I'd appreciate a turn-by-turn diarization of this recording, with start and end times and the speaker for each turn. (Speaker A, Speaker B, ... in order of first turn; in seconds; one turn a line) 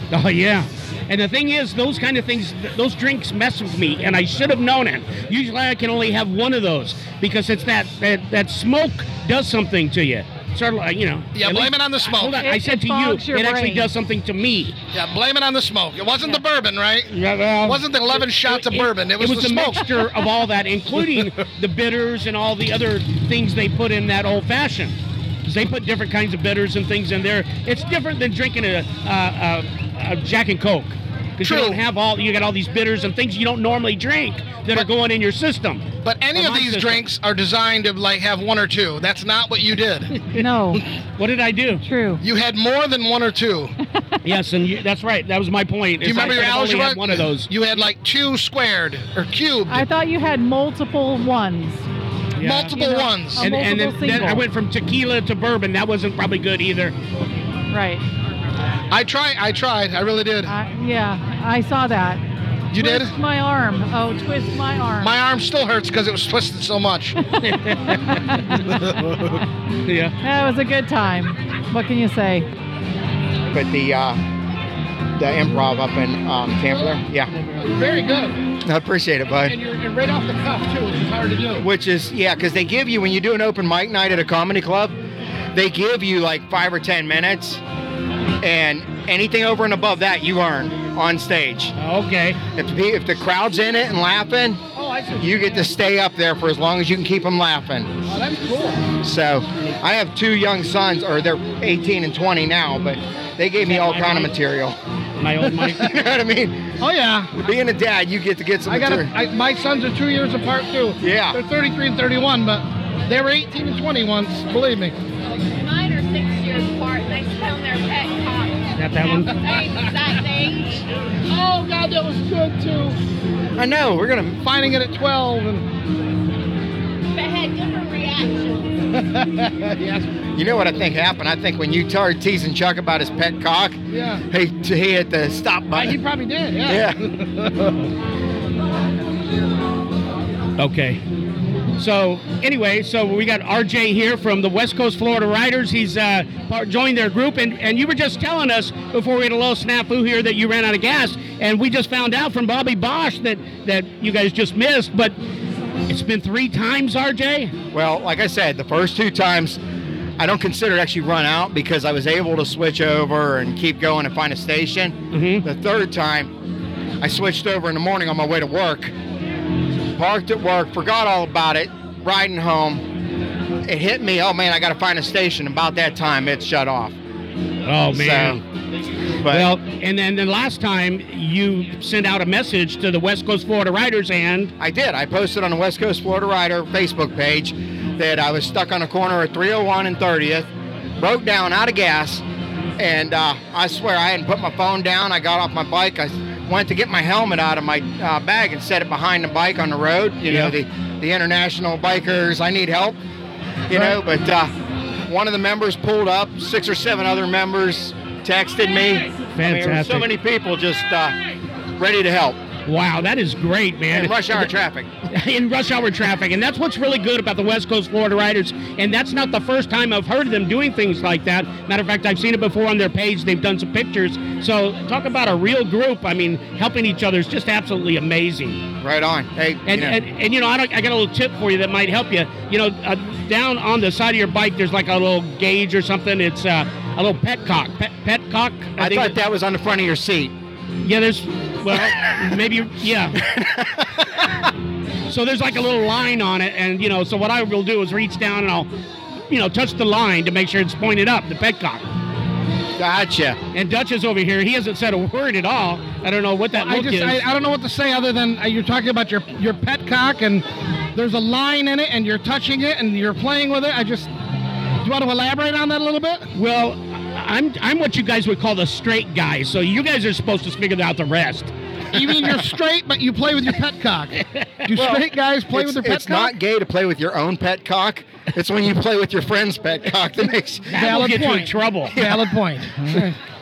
Speaker A: 0.1-14.8
Speaker B: 11.3-12.5
Speaker C: 12.2-13.9
Speaker B: 14.9-20.1
Speaker A: 17.1-37.0
Speaker B: 31.4-31.8
Speaker B: 36.0-40.2
Speaker C: 40.3-40.9
Speaker A: 41.2-41.8
Speaker C: 41.8-42.2
Speaker B: 42.2-43.7
Speaker A: 44.2-47.5
Speaker B: 46.0-49.9
Speaker C: 49.7-51.9
Speaker A: 52.4-52.7
Speaker B: 52.4-53.5
Speaker C: 52.7-54.4
Speaker A: 53.4-57.0
Speaker C: 57.7-58.0
Speaker B: 58.9-60.5
Speaker C: 60.5-62.2
Speaker B: 62.7-63.1
Speaker C: 62.7-65.1
Speaker B: 65.0-67.2
Speaker A: 67.4-68.4
Speaker C: 68.3-68.6
Speaker A: 69.9-70.1
Speaker C: 70.2-72.5
Speaker D: 73.5-74.2
Speaker D: 75.2-77.3
Speaker B: 76.8-78.4
Speaker D: 78.7-79.6
Speaker B: 79.5-81.7
Speaker D: 81.6-85.0
Speaker D: 85.5-87.6
Speaker D: 88.4-91.7
Speaker A: 91.8-92.4
Speaker D: 92.5-94.6
Speaker B: 94.8-95.7
Speaker D: 95.2-97.9
Speaker B: 98.1-98.9
Speaker D: 99.0-104.8
Speaker A: 103.7-104.3
Speaker A: 105.2-106.0
Speaker D: 105.8-106.8
Speaker B: 106.8-107.3
Speaker D: 107.3-109.1
Speaker B: 108.7-115.0
Speaker D: 111.0-111.4
Speaker E: 115.3-120.8
Speaker A: 118.8-119.4
Speaker B: 121.3-123.0
Speaker D: 123.6-124.4
Speaker B: 124.4-125.7
Speaker E: 127.1-128.7
Speaker B: 129.0-130.1
Speaker D: 130.4-133.8
Speaker B: 133.9-134.2
Speaker D: 134.3-136.0
Speaker B: 135.7-137.8
Speaker D: 136.6-137.0
Speaker A: 140.6-141.0
Speaker A: 141.8-155.2
Speaker A: 155.9-157.5
Speaker D: 157.7-159.6
Speaker D: 160.2-166.3
Speaker A: 165.1-165.5
Speaker D: 167.0-168.9
Speaker D: 170.0-172.8
Speaker D: 173.7-177.0
Speaker A: 177.7-178.4
Speaker D: 177.9-178.4
Speaker D: 179.2-179.5
Speaker A: 179.3-184.5
Speaker D: 184.6-190.5
Speaker D: 191.0-192.2
Speaker D: 192.8-203.0
Speaker A: 200.3-200.6
Speaker D: 203.7-204.5
Speaker B: 203.7-204.0
Speaker D: 205.1-211.2
Speaker A: 209.3-210.1
Speaker D: 211.8-212.4
Speaker A: 212.7-214.5
Speaker D: 213.9-215.0
Speaker A: 215.1-228.6
Speaker D: 228.8-230.0
Speaker A: 229.7-239.2
Speaker D: 238.8-240.3
Speaker A: 240.8-243.2
Speaker D: 243.4-243.9
Speaker A: 245.1-248.7
Speaker A: 249.3-251.8
Speaker D: 252.8-253.4
Speaker A: 253.5-257.2
Speaker B: 256.5-264.1
Speaker B: 264.8-266.3
Speaker A: 266.4-271.5
Speaker B: 271.9-276.3
Speaker D: 274.7-280.7
Speaker A: 280.7-282.0
Speaker B: 280.7-283.2
Speaker D: 282.0-282.2